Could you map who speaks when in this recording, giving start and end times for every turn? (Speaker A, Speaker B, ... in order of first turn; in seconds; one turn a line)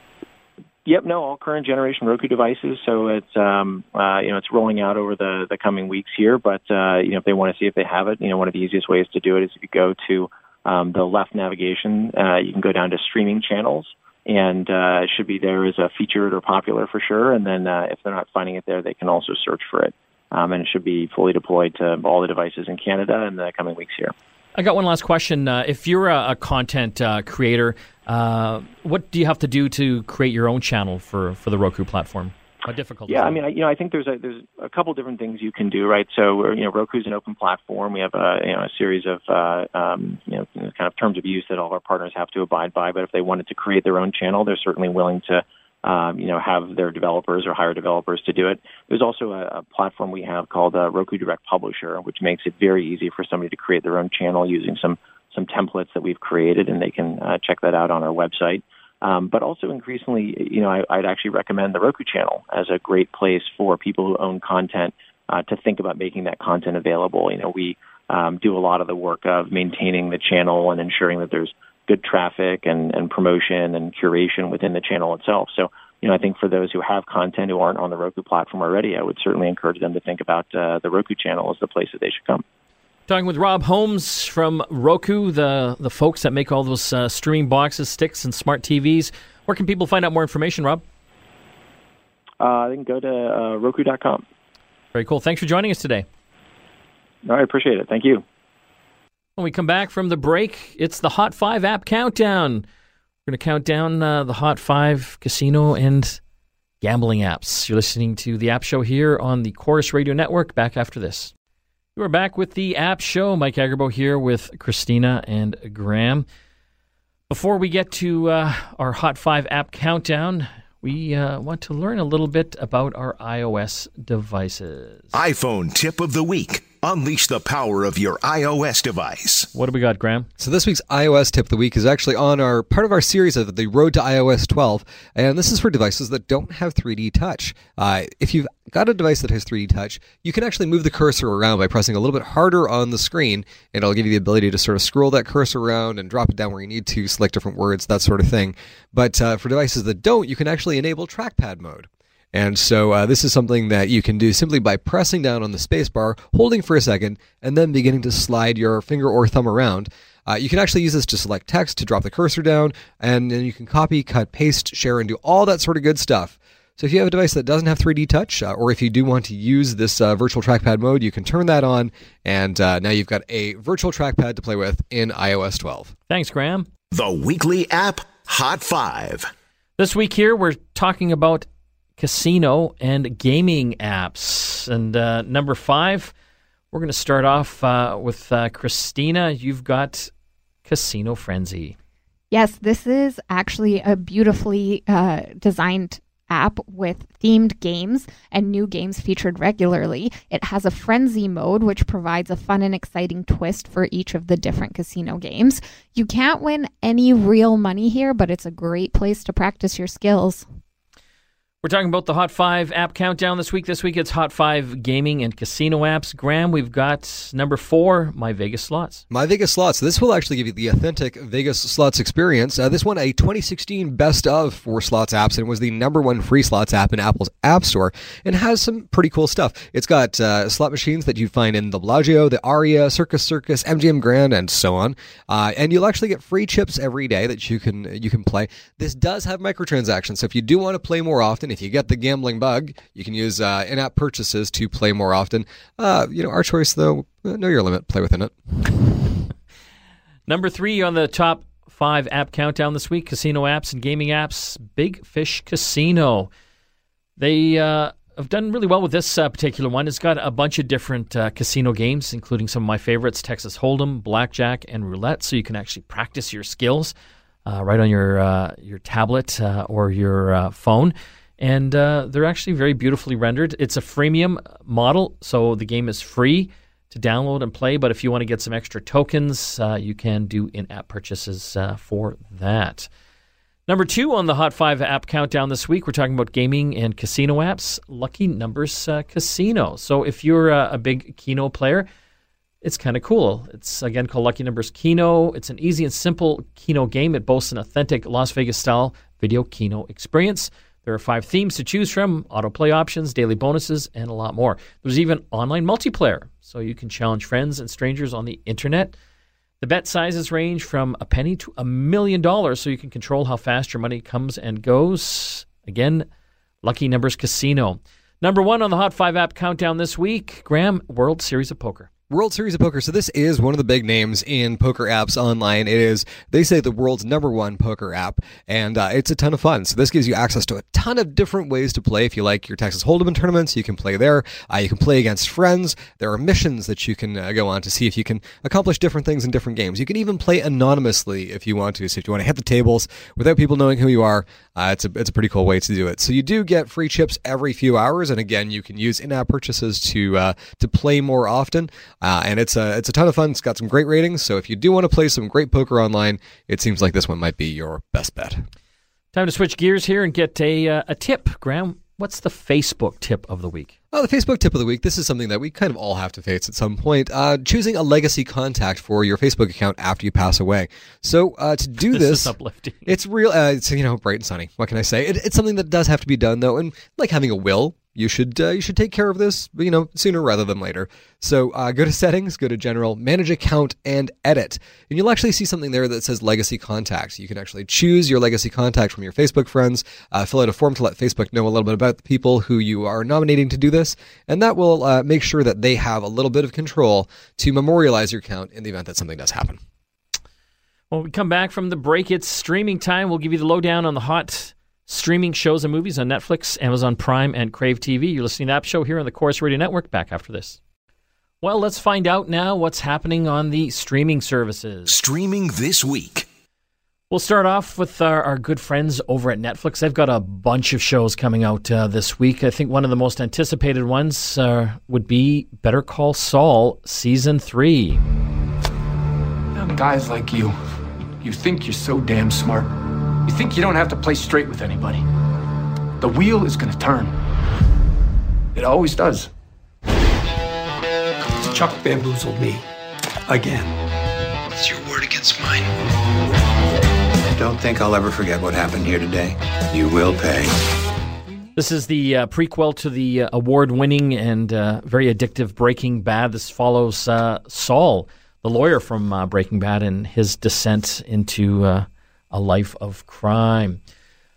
Speaker A: 0.8-24.1
Speaker B: 24.6-33.4
Speaker A: 33.1-82.4
Speaker B: 83.1-90.8
Speaker A: 92.4-94.2
Speaker B: 94.9-96.0
Speaker A: 97.2-98.2
Speaker B: 99.3-102.7
Speaker B: 103.2-106.2
Speaker B: 106.8-111.3
Speaker B: 112.0-116.2
Speaker B: 117.3-125.1
Speaker C: 125.1-129.5
Speaker B: 129.5-130.3
Speaker D: 130.4-175.9
Speaker B: 176.1-176.7
Speaker C: 176.9-179.3
Speaker B: 179.8-181.5
Speaker B: 182.0-186.1
Speaker B: 186.7-190.1
Speaker B: 190.6-191.8
Speaker E: 192.3-210.4
Speaker B: 211.6-219.0
Speaker D: 219.1-248.3
Speaker B: 250.3-256.3
Speaker B: 257.2-266.9
Speaker B: 267.4-282.9
Speaker B: 283.7-291.9
Speaker B: 292.6-308.9
Speaker B: 309.6-316.1
Speaker B: 316.6-321.9
Speaker D: 322.1-358.4
Speaker B: 359.1-363.7
Speaker D: 363.9-372.3
Speaker B: 371.8-372.9
Speaker D: 372.9-399.6
Speaker B: 400.9-410.6
Speaker B: 411.4-414.9
Speaker C: 414.9-416.2
Speaker B: 417.1-428.0
Speaker F: 429.5-430.5
Speaker F: 431.2-432.7
Speaker F: 433.2-435.0
Speaker F: 436.0-437.1
Speaker F: 438.5-439.3
Speaker G: 444.5-445.7
Speaker G: 447.3-450.5
Speaker B: 451.6-463.8